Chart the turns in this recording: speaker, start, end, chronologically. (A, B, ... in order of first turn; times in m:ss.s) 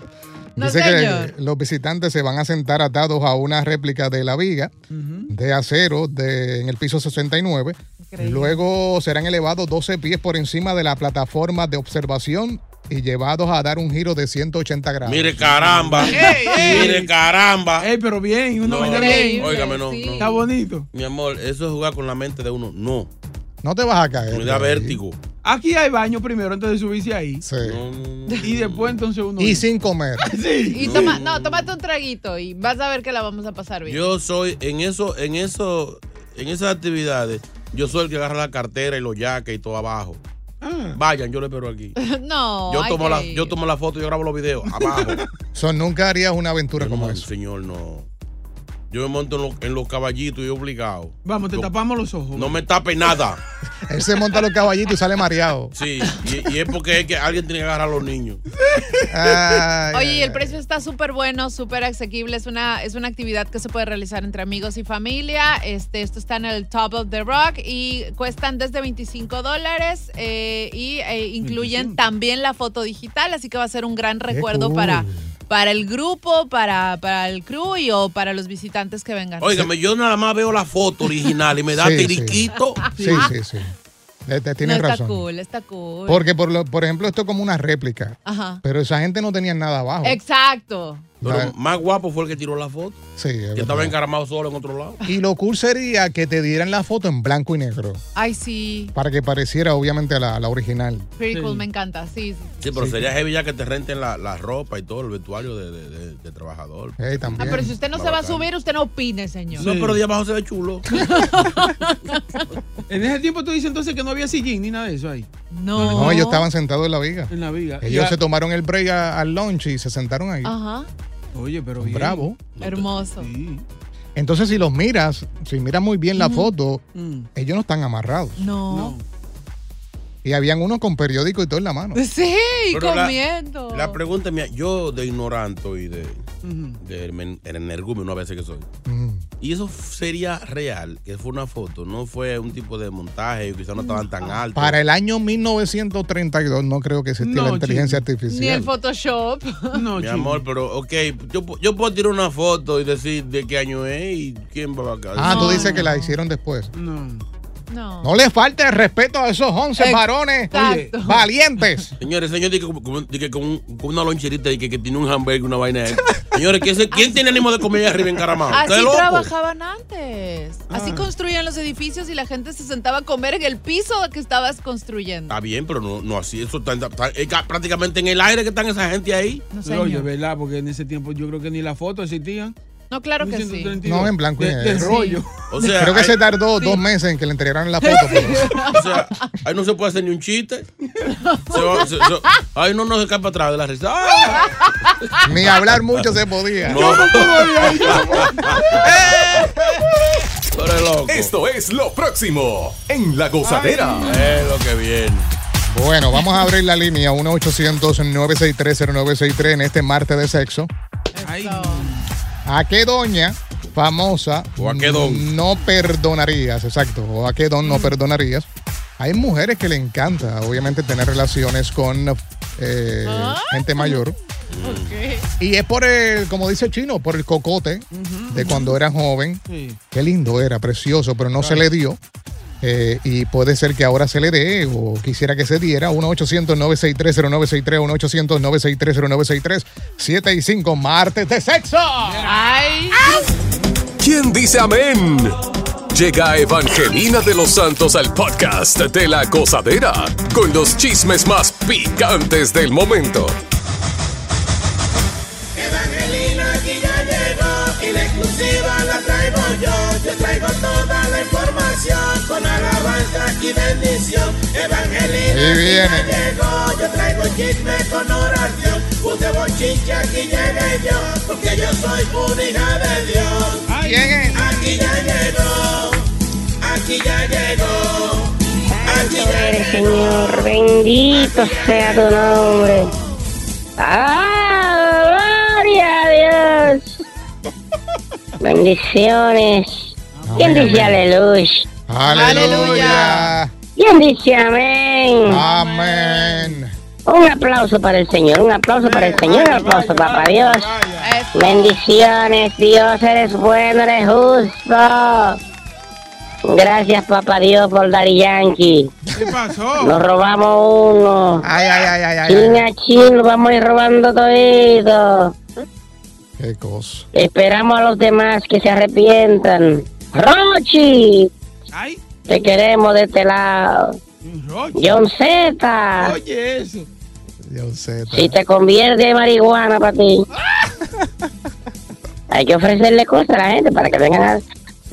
0:00.6-0:04.7 A
0:00.6-0:01.3 B
0:04.9-0:05.3 C
0:05.3-0:16.1 A
0:08.0-0:08.6 B
0:15.0-0:17.9 D
0:16.1-0:17.1 C
0:16.1-0:16.8 B
0:17.8-0:19.5 C
0:18.6-0:20.3 D
0:18.8-0:20.5 B
0:20.2-0:20.9 C
0:20.9-0:23.1 D
0:23.6-0:25.0 A
0:24.3-0:25.2 D
0:25.4-0:27.4 C
0:27.4-0:27.8 A
0:27.6-0:29.0 D
0:28.4-0:29.6 C
0:29.4-0:30.3 A
0:30.2-0:31.1 C
0:30.7-0:34.0 B
0:30.8-0:31.7 D
0:33.8-0:40.2 D
0:40.6-0:41.0 C
0:40.9-0:41.9 D
0:42.0-0:43.5 B
0:42.7-0:45.2 D
0:44.8-0:45.2 C
0:45.5-0:47.3 A
0:46.8-0:48.1 D
0:48.9-0:51.7 D
0:51.2-0:52.6 C
0:52.3-0:53.4 D
0:53.9-0:55.7 A
0:55.7-0:58.4 D
0:58.8-0:59.6 C
0:59.1-1:00.6 A
0:59.9-1:19.7 B
1:11.4-1:12.0 C
1:14.3-1:15.3 A
1:19.4-1:23.0 D
1:21.7-1:22.4 A
1:22.8-1:23.2 B
1:23.0-1:23.2 C
1:23.0-1:23.7 A
1:24.3-1:25.2 A
1:24.6-1:26.3 B
1:26.1-1:30.2 A
1:28.2-1:28.6 B
1:30.0-1:31.1 B
1:31.2-1:31.5 A
1:31.2-1:33.0 D
1:33.2-1:33.9 A
1:33.6-1:35.0 D
1:35.1-1:38.0 A
1:38.1-1:38.9 B
1:38.9-1:41.1 A
1:41.2-1:42.6 B
1:41.3-1:41.6 C
1:42.6-1:48.5 D
1:47.0-1:47.7 A
1:47.3-1:49.7 B
1:49.5-1:50.8 D
1:49.6-1:50.0 C
1:50.9-1:52.2 B
1:52.9-1:55.3 C
1:55.5-1:56.5 B
1:55.8-2:00.5 A
1:55.8-1:56.1 D
1:57.3-1:58.2 C
2:00.4-2:00.9 B
2:01.3-2:02.3 C
2:01.8-2:02.4 A
2:02.6-2:02.9 D
2:02.6-2:03.3 B
2:03.2-2:03.6 C
2:04.2-2:06.8 A
2:06.1-2:06.5 B
2:06.9-2:07.3 C
2:07.3-2:08.4 A
2:08.4-2:09.0 B
2:08.7-2:09.0 C
2:10.2-2:12.0 A
2:11.9-2:14.0 B
2:12.7-2:13.2 D
2:13.7-2:16.2 D
2:16.4-2:16.8 C
2:16.8-2:18.7 D
2:18.8-2:19.2 A
2:19.4-2:24.8 D
2:23.8-2:24.4 B
2:24.5-2:28.7 A
2:27.2-2:28.0 C
2:28.3-2:29.8 B
2:29.8-2:30.4 C
2:30.0-2:35.7 D
2:35.2-2:36.7 A
2:35.2-2:35.8 B
2:35.7-2:36.1 C
2:36.7-2:37.2 C
2:37.7-2:38.1 B
2:38.0-2:41.9 A
2:39.8-2:41.2 B
2:40.5-2:40.9 C
2:42.0-2:49.3 D
2:46.9-2:47.4 B
2:48.5-2:55.4 B
2:50.7-2:51.0 C
2:55.3-2:59.4 D
2:59.5-3:00.1 B
2:59.6-3:02.5 C
3:02.9-3:03.8 B
3:03.2-3:05.4 C
3:03.8-3:05.0 A
3:04.8-3:05.8 B
3:05.5-3:06.1 D
3:05.8-3:08.5 A
3:06.6-3:06.8 B
3:07.8-3:09.3 B
3:08.7-3:10.7 D
3:11.2-3:12.2 B
3:11.5-3:14.5 D
3:14.2-3:14.8 B
3:15.2-3:16.9 A
3:16.6-3:19.0 D
3:16.7-3:19.7 C
3:20.5-3:21.3 D
3:21.1-3:24.1 E
3:23.5-3:23.9 C
3:24.0-3:25.3 D
3:25.7-3:30.7 A
3:31.1-3:32.0 B
3:31.2-3:32.0 C
3:32.5-3:38.5 A
3:34.6-3:35.3 D
3:37.6-3:38.0 B
3:39.0-3:44.1 A
3:43.0-3:44.0 B
3:44.5-3:44.9 D
3:44.6-3:45.3 B
3:45.4-3:52.0 A
3:47.9-3:48.5 C
3:49.5-3:49.8 C
3:51.3-3:51.7 C
3:52.6-4:02.3 A
4:02.3-4:03.2 B
4:04.0-4:05.3 E
4:05.9-4:13.3 E
4:15.6-4:33.6 F
4:25.2-4:26.2 A
4:33.7-4:34.3 C
4:33.8-4:34.6 A
4:34.3-4:36.0 F
4:36.6-4:38.3 F
4:38.7-4:42.9 G
4:38.8-4:40.3 F
4:41.4-4:42.0 F
4:43.8-4:47.0 G
4:48.4-4:51.7 G
4:50.1-4:50.9 C
4:50.2-4:51.0 A
4:51.9-4:53.5 A
4:52.0-4:53.3 B
4:52.2-4:53.1 C
4:53.8-4:55.4 G
4:55.2-4:56.7 A
4:55.3-4:56.4 B
4:57.1-5:00.7 G
4:58.7-5:01.2 C
5:01.0-5:01.4 B
5:01.3-5:05.4 G
5:06.4-5:08.9 G
5:09.1-5:10.0 C
5:09.8-5:11.5 G
5:11.4-5:12.6 A
5:12.3-5:15.4 G
5:16.4-5:17.1 A
5:17.1-5:21.3 G
5:21.7-5:22.0 C
5:22.3-5:24.0 G
5:24.2-5:25.0 C
5:24.7-5:26.2 G
5:26.0-5:26.9 C
5:27.4-5:28.3 A
5:28.1-5:30.2 G
5:32.3-5:34.4 G